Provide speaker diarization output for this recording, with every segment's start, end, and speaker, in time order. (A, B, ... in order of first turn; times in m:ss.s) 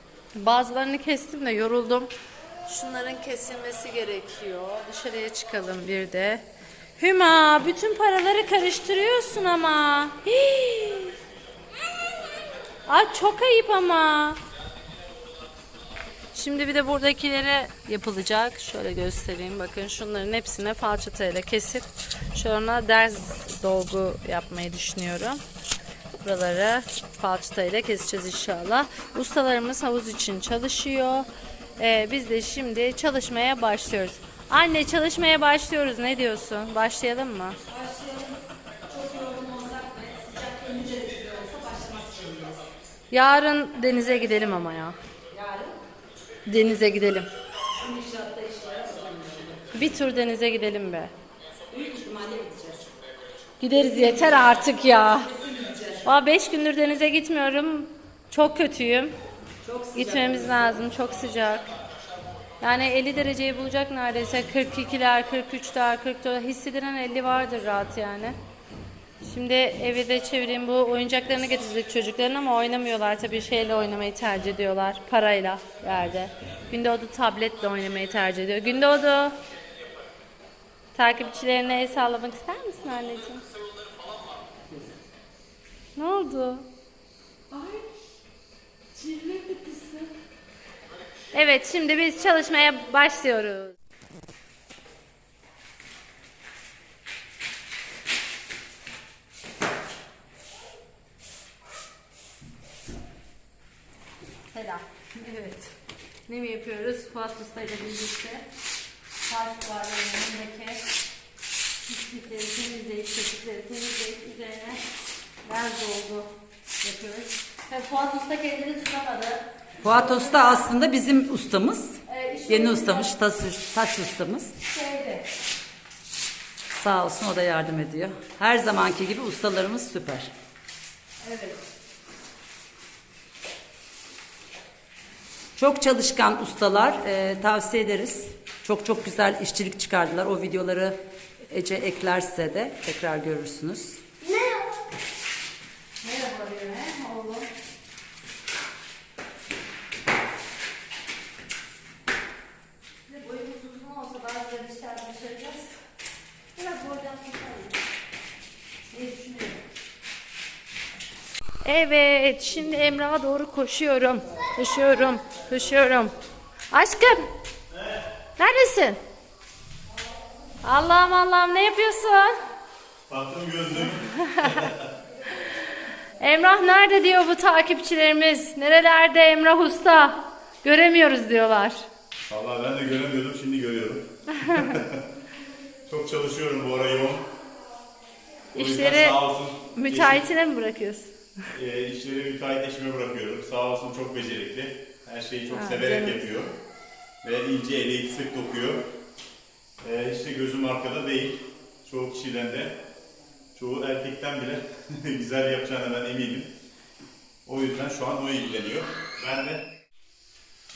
0:00.3-0:02.1 A
0:02.6-0:06.4 A
0:07.0-0:11.2 A
0:12.8-0:14.4 A
0:16.3-0:25.4 A
0:26.2-0:37.6 A
0:37.7-0:38.4 B
0:38.9-0:42.6 B
0:43.1-0:45.0 A
0:45.3-0:45.8 B
0:46.4-0:47.3 A
0:47.8-0:49.7 B
0:49.7-0:51.1 A
0:51.7-0:52.9 B
0:53.6-0:55.3 A
0:53.9-0:56.0 B
0:56.0-0:59.1 A
0:59.6-1:00.8 B
0:59.9-1:01.7 A
1:02.6-1:08.4 A
1:09.2-1:19.3 A
1:20.9-1:23.4 A
1:26.0-1:26.6 A
1:27.5-1:27.8 B
1:29.0-1:30.1 B
1:31.3-1:33.8 A
1:44.5-1:45.7 A
1:46.3-1:48.5 A
1:49.2-1:50.8 A
1:51.9-1:54.8 A
1:55.4-1:59.4 A
1:59.8-2:04.5 B
2:00.0-2:00.4 A
2:02.1-2:03.2 A
2:04.6-2:05.2 A
2:06.7-2:10.3 B
2:11.2-2:11.5 A
2:15.6-2:24.0 B
2:24.2-2:24.7 A
2:26.0-2:27.5 A
2:33.1-2:35.8 A
2:36.6-2:37.7 A
2:38.9-2:39.5 A
2:41.6-2:46.1 A
2:46.7-2:47.2 A
2:47.7-2:48.0 C
2:48.4-2:49.0 A
2:50.6-2:52.4 A
2:53.1-2:54.8 C
2:54.2-2:54.6 A
2:56.2-3:01.9 A
3:02.2-3:05.0 C
3:05.9-3:07.3 C
3:08.5-3:09.2 A
3:08.5-3:10.2 C
3:09.7-3:11.1 A
3:11.5-3:16.5 C
3:15.5-3:16.2 A
3:17.2-3:18.8 C
3:19.8-3:22.8 C
3:23.5-3:26.5 C
3:27.4-3:29.7 C